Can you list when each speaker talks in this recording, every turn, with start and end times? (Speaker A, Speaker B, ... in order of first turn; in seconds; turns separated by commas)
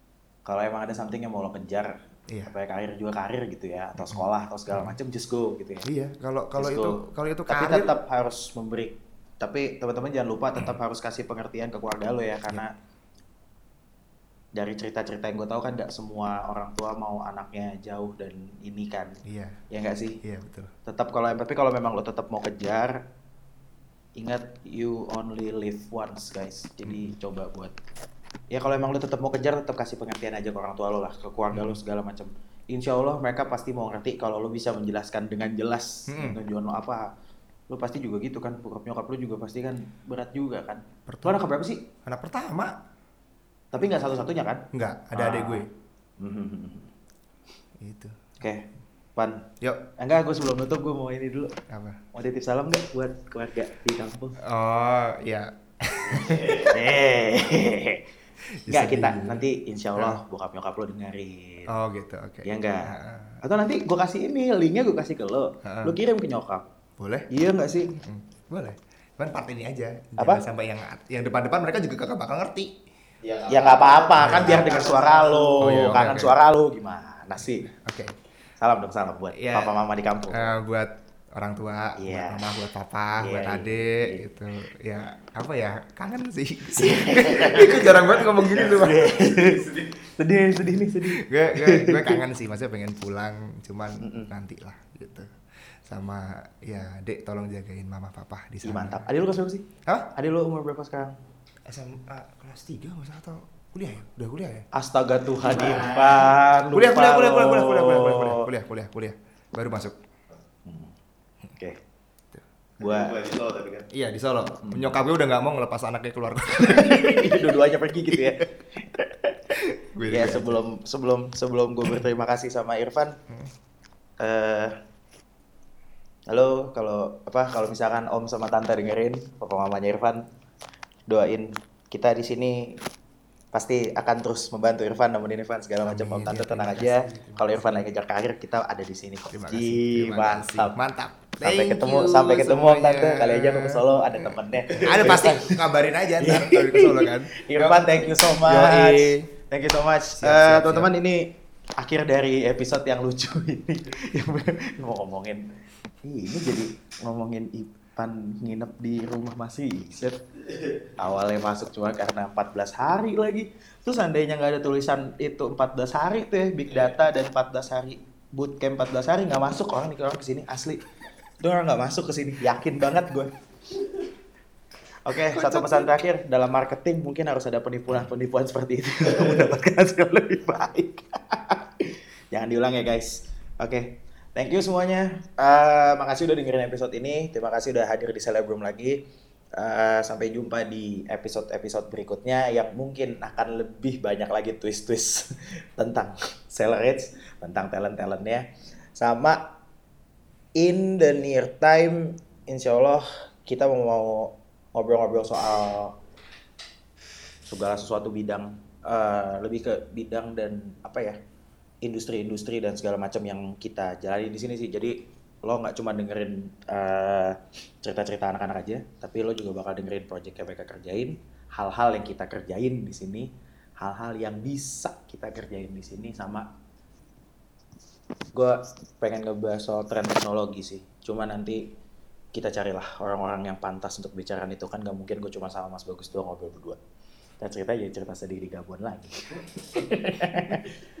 Speaker A: 0.4-5.9, Speaker B: 4.0-5.0, Speaker B: 5.8-7.9, Speaker A: 6.5-12.7, Speaker A: 14.5-20.2, Speaker B: 19.2-19.6, Speaker B: 20.2-20.7, Speaker A: 20.9-23.0, Speaker A: 24.2-27.7, Speaker B: 26.8-27.1, Speaker A: 28.5-37.1, Speaker B: 31.5-31.8, Speaker B: 36.1-36.4, Speaker A: 37.7-41.9, Speaker B: 41.1-41.4, Speaker B: 42.0-42.8, Speaker A: 43.7-45.6, Speaker B: 44.7-45.7, Speaker A: 46.2-46.9, Speaker B: 47.8-48.2, Speaker A: 48.4-51.6, Speaker B: 49.6-49.9, Speaker B: 51.7-52.0, Speaker A: 52.1-54.4, Speaker B: 54.4-56.8, Speaker A: 56.1-58.0, Speaker B: 58.6-59.4, Speaker A: 58.7-61.7, Speaker B: 60.0-60.2, Speaker B: 61.7-63.4, Speaker A: 62.4-66.6, Speaker B: 65.6-65.9, Speaker B: 67.0-67.3, Speaker A: 67.3-67.9, Speaker B: 67.9-72.8, Speaker C: 73.2-75.6, Speaker A: 73.5-77.7, Speaker B: 74.2-74.7, Speaker B: 75.6-76.3, Speaker B: 77.4-78.2, Speaker A: 78.6-80.5, Speaker B: 79.3-79.7, Speaker B: 80.3-89.1, Speaker A: 82.0-82.4, Speaker A: 83.2-84.2, Speaker A: 86.7-92.2, Speaker C: 89.1-89.8, Speaker B: 91.0-95.3, Speaker A: 94.0-94.3, Speaker B: 95.8-99.0, Speaker A: 98.6-101.1, Speaker B: 99.8-100.1, Speaker B: 101.7-104.7, Speaker A: 104.7-108.5, Speaker C: 105.6-106.2, Speaker B: 106.7-110.0, Speaker A: 110.6-110.9, Speaker A: 111.5-111.8, Speaker A: 112.8-113.1, Speaker C: 112.8-113.9, Speaker B: 113.9-117.5, Speaker A: 114.6-114.9, Speaker A: 116.6-119.4, Speaker B: 118.1-118.4, Speaker B: 119.5-120.6, Speaker A: 120.1-123.2, Speaker A: 124.2-124.7, Speaker A: 126.3-130.3, Speaker A: 131.1-132.8, Speaker A: 133.5-140.8, Speaker B: 135.8-137.8, Speaker B: 139.3-149.3, Speaker A: 141.4-145.6, Speaker A: 146.2-155.4, Speaker B: 150.2-150.9, Speaker A: 156.0-160.2, Speaker A: 161.0-170.8, Speaker A: 171.4-173.3, Speaker A: 175.0-189.0, Speaker B: 175.3-175.9, Speaker A: 189.6-199.6, Speaker A: 200.6-205.9, Speaker A: 207.5-211.2, Speaker A: 211.8-226.5, Speaker A: 228.3-231.7, Speaker A: 232.3-236.8, Speaker A: 237.4-240.8